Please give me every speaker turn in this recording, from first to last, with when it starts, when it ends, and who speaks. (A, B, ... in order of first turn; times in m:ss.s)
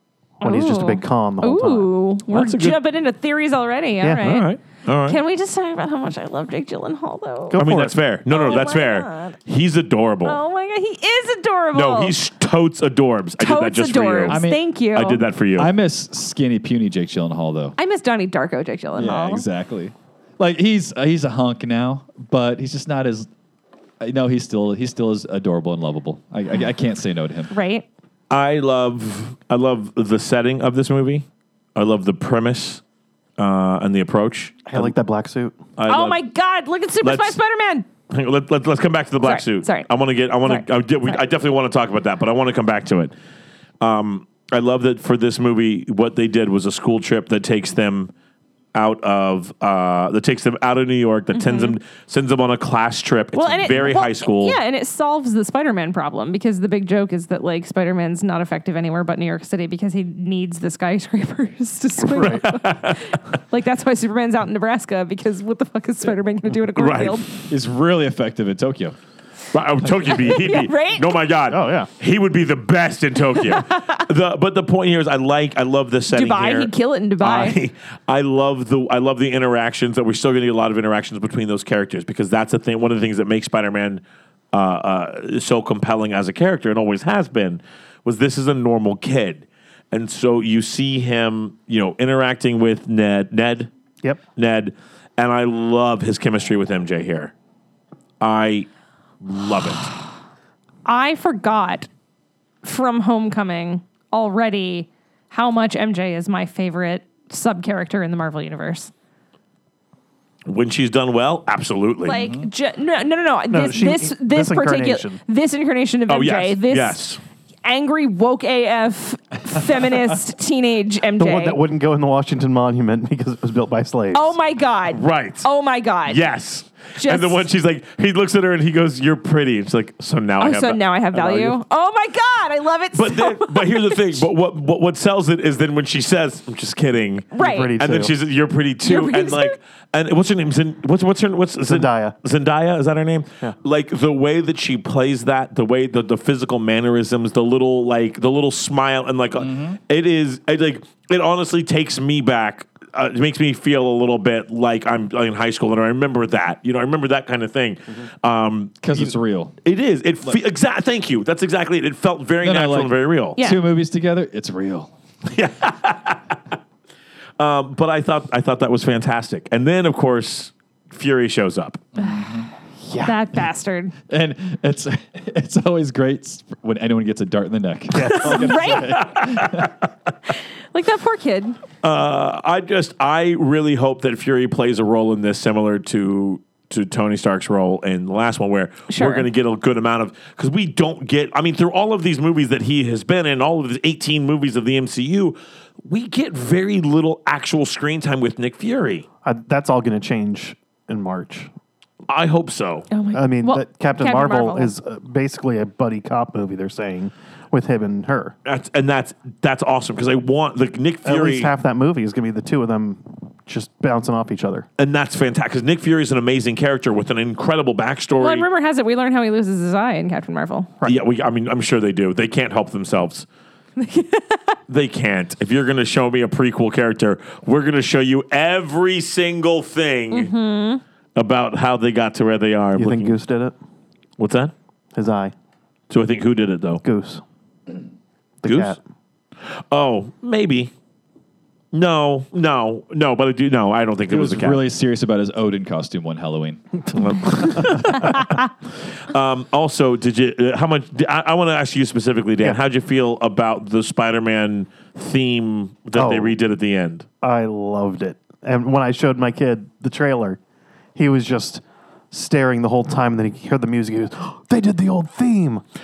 0:00.4-0:04.5 A
0:00.4-0:01.9 B
0:02.3-0:02.8 C
0:04.0-0:04.4 B
0:04.2-0:05.2 C
0:05.1-0:07.6 A
0:07.5-0:08.0 B
0:07.6-0:10.4 C
0:08.3-0:09.4 A
0:10.2-0:12.1 A
0:11.7-0:15.7 C
0:13.4-0:15.2 A
0:14.3-0:14.6 D
0:15.6-0:17.7 D
0:17.8-0:19.4 A
0:19.0-0:23.3 D
0:24.0-0:27.5 D
0:27.5-0:27.9 A
0:28.3-0:32.8 C
0:33.4-0:34.9 C
0:34.7-0:35.6 B
0:35.8-0:36.2 C
0:35.9-0:37.9 A
0:37.0-0:37.4 C
0:38.1-0:43.1 C
0:39.2-0:39.9 A
0:40.4-0:41.2 A
0:43.8-0:48.1 C
0:48.7-0:54.6 C
0:51.3-0:51.8 A
0:53.4-1:07.3 A
1:02.0-1:03.2 C
1:06.7-1:07.2 C
1:07.5-1:09.0 D
1:09.5-1:33.7 C
1:10.1-1:11.2 A
1:11.5-1:11.9 B
1:13.4-1:14.0 A
1:16.1-1:17.6 A
1:34.4-1:37.3 C
1:38.2-1:38.7 C
1:39.2-1:39.9 C
1:40.9-1:41.9 A
1:42.6-1:48.9 A
1:50.4-1:52.2 C
1:52.0-1:57.0 A
1:52.2-1:52.5 D
1:53.5-1:55.2 B
1:56.1-1:57.2 C
1:57.6-2:01.6 A
2:01.2-2:04.4 B
2:04.1-2:06.2 A
2:04.9-2:05.5 C
2:06.1-2:10.8 C
2:07.0-2:07.4 A
2:10.4-2:14.2 A
2:13.0-2:43.4 C
2:17.3-2:17.7 A
2:17.4-2:18.1 B
2:18.8-2:19.6 A
2:21.7-2:22.1 B
2:29.4-2:29.8 D
2:38.8-2:39.6 D
2:42.4-2:44.9 D
2:45.3-2:46.4 C
2:47.4-2:51.8 C
2:52.0-2:52.5 D
2:52.8-2:53.1 B
2:53.0-2:53.9 A
2:54.1-2:59.7 D
2:57.9-2:58.9 B
2:58.2-2:59.0 A
2:58.9-2:59.7 C
3:00.7-3:01.6 A
3:01.8-3:19.0 C
3:08.9-3:09.3 A
3:19.2-3:21.5 B
3:22.1-3:22.9 C
3:22.9-3:24.7 A
3:23.1-3:28.4 B
3:28.4-3:31.5 C
3:31.0-3:34.7 B
3:34.8-3:38.4 C
3:38.2-3:40.7 A
3:40.8-3:43.3 C
3:43.8-3:44.6 A
3:44.7-3:50.3 C
3:50.1-3:50.8 A
3:51.2-3:53.2 C
3:52.8-3:53.6 B
3:54.2-3:54.5 C
3:55.0-3:55.3 B
3:55.9-3:56.8 C
3:56.8-3:57.2 B
3:58.4-3:58.8 B
3:58.4-3:58.8 C
3:59.7-4:00.7 C
4:01.7-4:04.6 C
4:04.1-4:06.6 D
4:06.9-4:08.5 C
4:09.1-4:17.1 C
4:16.0-4:16.4 B
4:17.2-4:20.4 B
4:21.0-4:25.6 B